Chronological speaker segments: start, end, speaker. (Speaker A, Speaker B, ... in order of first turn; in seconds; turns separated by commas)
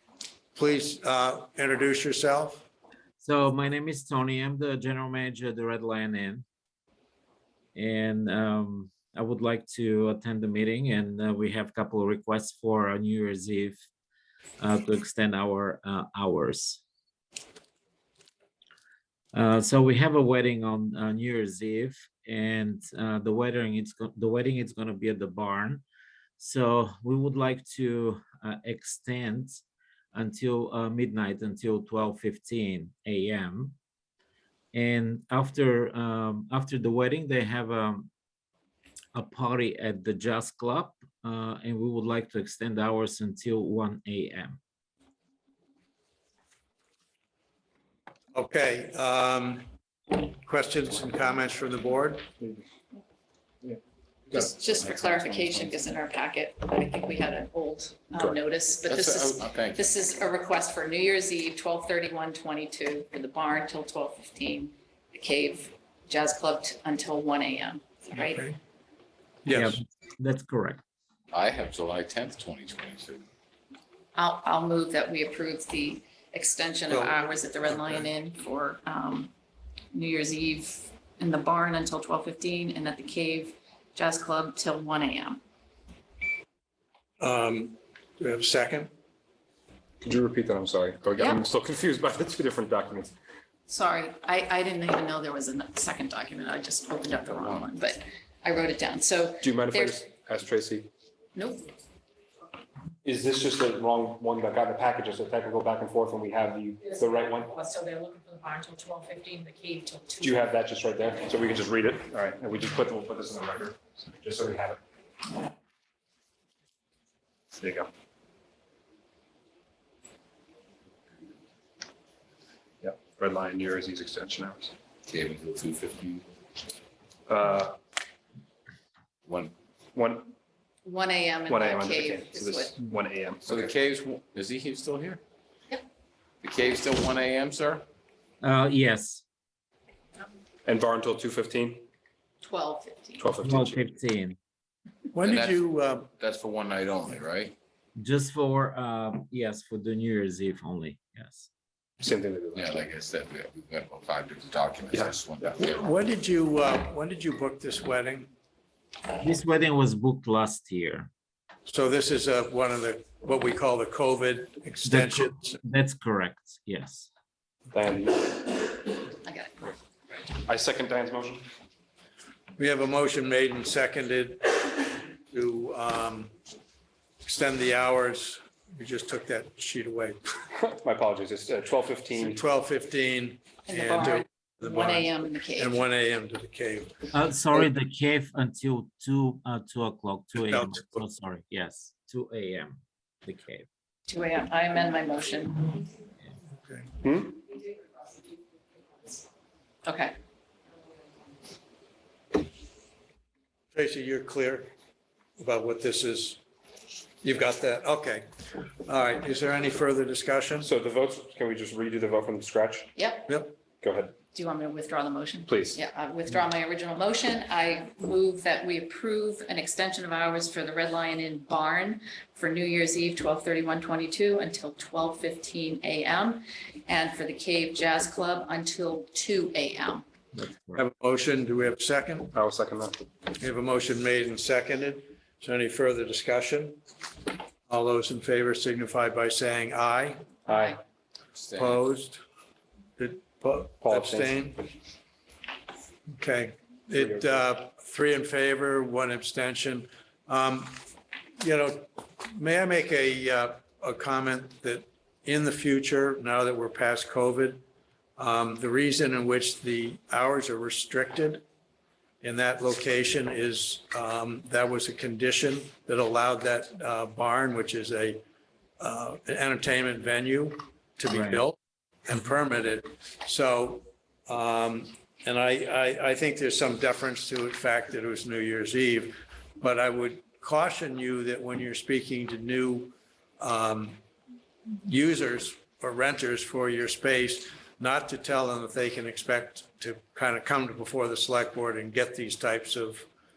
Speaker A: 0.6-2.7, Speaker B: 3.2-6.5, Speaker B: 7.8-13.8, Speaker B: 14.6-16.8, Speaker B: 19.3-25.8, Speaker B: 26.4-29.6, Speaker B: 30.1-33.8, Speaker B: 34.7-38.1, Speaker B: 39.1-44.6, Speaker A: 48.3-52.3, Speaker C: 54.3-68.4, Speaker D: 54.8-55.7, Speaker D: 58.9-59.8, Speaker A: 68.2-68.5, Speaker A: 69.5-69.8, Speaker B: 69.5-70.8, Speaker D: 71.3-73.3, Speaker C: 74.2-79.3, Speaker A: 76.9-77.3, Speaker C: 79.9-85.4, Speaker A: 87.2-88.9, Speaker E: 90.0-93.1, Speaker C: 93.7-100.0, Speaker E: 99.4-100.9, Speaker C: 101.3-101.7, Speaker E: 103.0-107.5, Speaker F: 107.0-110.4, Speaker E: 110.2-114.8, Speaker E: 117.5-117.9, Speaker E: 122.8-124.7, Speaker D: 125.1-126.3, Speaker E: 127.3-127.8, Speaker D: 129.3-129.5, Speaker E: 129.9-130.3, Speaker C: 130.8-132.8, Speaker E: 131.5-133.7, Speaker D: 133.5-135.2, Speaker D: 136.4-137.8, Speaker B: 138.4-139.2, Speaker E: 140.7-141.9, Speaker C: 142.4-143.3, Speaker E: 143.2-143.9, Speaker B: 143.4-144.4, Speaker A: 145.1-146.1, Speaker D: 145.2-145.6, Speaker D: 146.2-147.6, Speaker B: 148.0-151.5, Speaker E: 152.0-152.9, Speaker D: 152.6-155.8, Speaker E: 154.9-155.6, Speaker A: 155.7-158.3, Speaker B: 159.2-161.1, Speaker A: 161.7-165.6, Speaker B: 164.8-167.1, Speaker E: 167.7-168.9, Speaker C: 169.2-169.5, Speaker E: 170.4-171.5, Speaker A: 172.6-176.3, Speaker A: 177.2-180.2, Speaker E: 180.6-182.4, Speaker A: 182.2-187.0, Speaker C: 183.7-185.8, Speaker B: 187.1-193.7, Speaker A: 190.5-191.0, Speaker C: 194.1-195.8, Speaker A: 196.7-196.9, Speaker E: 197.0-197.4, Speaker C: 199.8-200.2, Speaker A: 203.7-204.7, Speaker A: 205.4-206.4, Speaker A: 207.2-208.3, Speaker A: 208.9-210.7, Speaker E: 210.6-212.9, Speaker C: 213.0-213.3, Speaker A: 213.3-213.5, Speaker E: 213.8-214.2, Speaker C: 214.3-230.0, Speaker E: 215.5-215.8, Speaker A: 230.8-232.4, Speaker E: 232.3-233.1, Speaker A: 233.3-236.8, Speaker A: 237.7-240.3, Speaker E: 240.5-240.8, Speaker D: 241.3-241.8, Speaker A: 241.6-242.2, Speaker A: 243.0-244.7, Speaker E: 243.8-244.4, Speaker A: 246.1-250.8, Speaker E: 246.9-247.3, Speaker A: 251.4-257.6, Speaker A: 258.2-261.4, Speaker A: 262.2-268.2, Speaker A: 268.8-284.0, Speaker B: 271.1-271.4, Speaker A: 284.9-293.1